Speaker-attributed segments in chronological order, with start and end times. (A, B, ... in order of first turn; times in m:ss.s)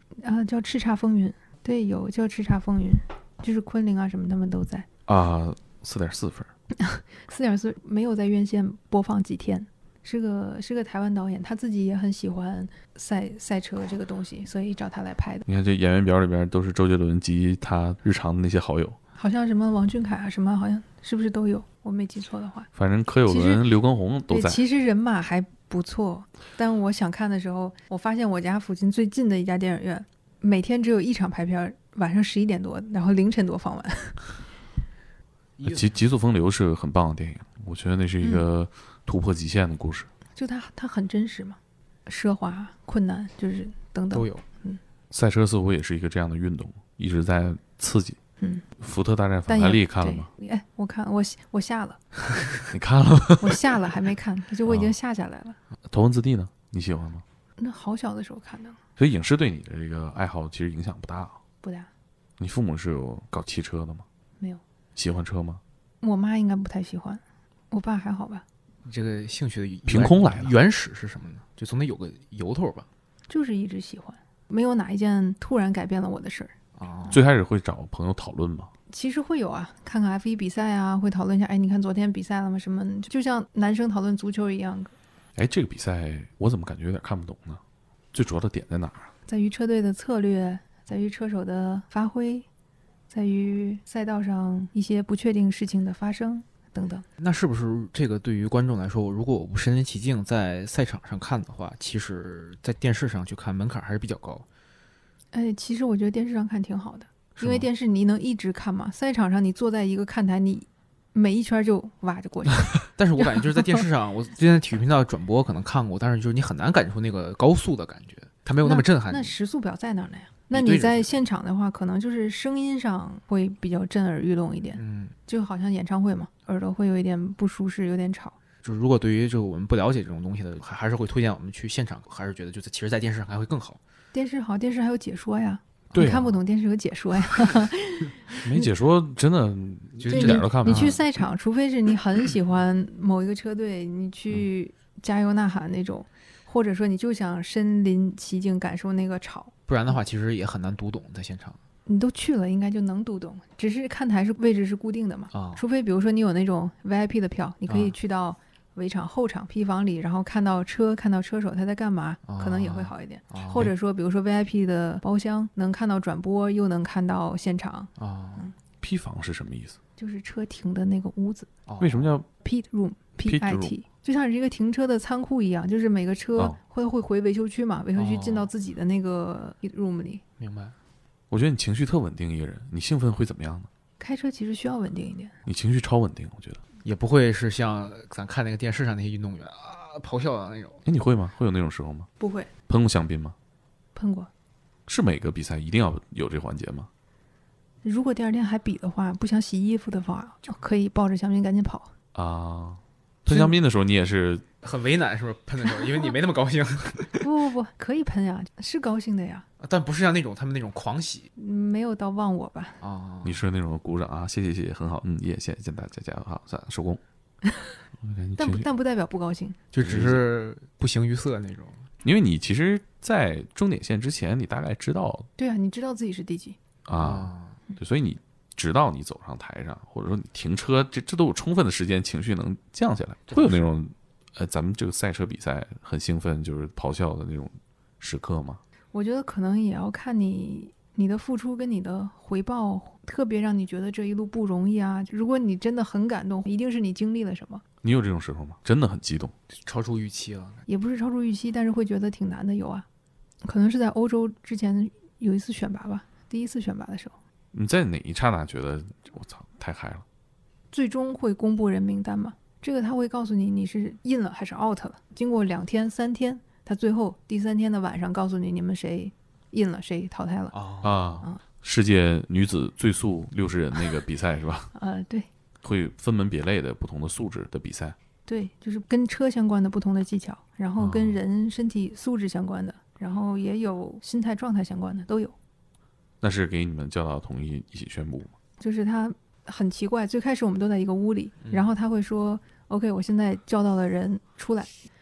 0:00.2-0:04.9 A
0:05.1-0:06.5 B
0:06.8-0:15.4 A
0:15.5-0:19.0 B
0:19.2-0:22.7 A
0:22.8-0:24.6 B
0:23.3-0:23.6 A
0:24.3-0:34.3 A
0:35.6-0:36.0 C
0:35.6-0:40.1 B
0:40.4-0:44.8 A
0:44.1-0:44.4 C
0:45.1-0:48.2 B
0:48.8-0:50.3 B
0:49.5-0:52.0 A
0:52.7-0:53.6 B
0:53.4-0:55.6 A
0:54.7-0:54.9 B
0:55.9-0:57.2 B
0:57.6-0:58.8 A
0:59.0-1:01.4 B
1:01.6-1:01.9 A
1:02.4-1:04.0 B
1:05.0-1:05.6 B
1:06.0-1:08.4 A
1:08.8-1:12.9 C
1:09.9-1:10.5 B
1:13.3-1:16.5 A
1:16.8-1:17.3 C
1:17.1-1:18.7 B
1:18.9-1:24.9 A
1:25.4-1:27.6 B
1:28.1-1:29.1 B
1:29.3-1:32.5 A
1:33.1-1:37.0 A
1:37.2-1:44.5 C
1:45.3-1:52.7 A
1:47.4-1:47.6 C
1:53.0-1:59.3 C
1:58.6-2:08.4 A
2:00.5-2:01.2 C
2:04.8-2:05.2 C
2:08.6-2:13.8 C
2:14.1-2:18.2 A
2:15.9-2:16.3 B
2:18.4-2:21.0 B
2:20.0-2:21.0 C
2:20.1-2:29.5 A
2:29.7-2:31.6 C
2:31.9-2:48.5 A
2:35.3-2:35.6 C
2:37.7-2:38.0 C
2:42.3-2:43.7 C
2:48.0-2:48.5 C
2:48.8-2:49.8 B
2:50.0-2:51.5 A
2:51.7-2:52.1 C
2:51.8-2:52.3 B
2:52.4-3:00.2 A
2:53.2-2:53.7 B
2:58.0-2:58.5 C
3:00.4-3:00.8 C
3:01.3-3:03.7 B
3:04.0-3:05.3 A
3:05.5-3:06.6 B
3:06.8-3:10.8 C
3:10.9-3:12.1 B
3:12.2-3:12.5 A
3:12.7-3:13.4 B
3:14.0-3:14.3 A
3:14.9-3:16.9 B
3:17.8-3:21.9 A
3:22.2-3:24.4 B
3:24.6-3:27.3 C
3:27.2-3:29.4 A
3:29.6-3:31.3 C
3:31.4-3:32.8 A
3:32.8-3:33.4 C
3:33.2-3:37.0 B
3:38.0-3:38.7 B
3:38.4-3:39.6 A
3:39.7-3:41.9 C
3:39.8-3:40.2 B
3:42.0-3:45.3 B
3:45.4-3:46.6 A
3:46.9-3:58.6 B
3:47.0-3:47.6 C
3:53.3-3:53.6 C
3:58.9-4:07.6 A
4:07.8-4:09.3 B
4:09.5-4:10.6 C
4:10.7-4:12.9 A
4:13.4-4:17.2 A
4:17.5-4:20.0 B
4:20.7-4:30.6 A
4:30.5-4:31.2 C
4:30.8-4:34.7 B
4:34.8-4:35.3 A
4:35.6-4:38.0 B
4:38.3-4:45.4 A
4:40.8-4:41.2 B
4:46.2-4:48.3 B
4:48.6-4:54.7 A
4:51.4-4:51.7 C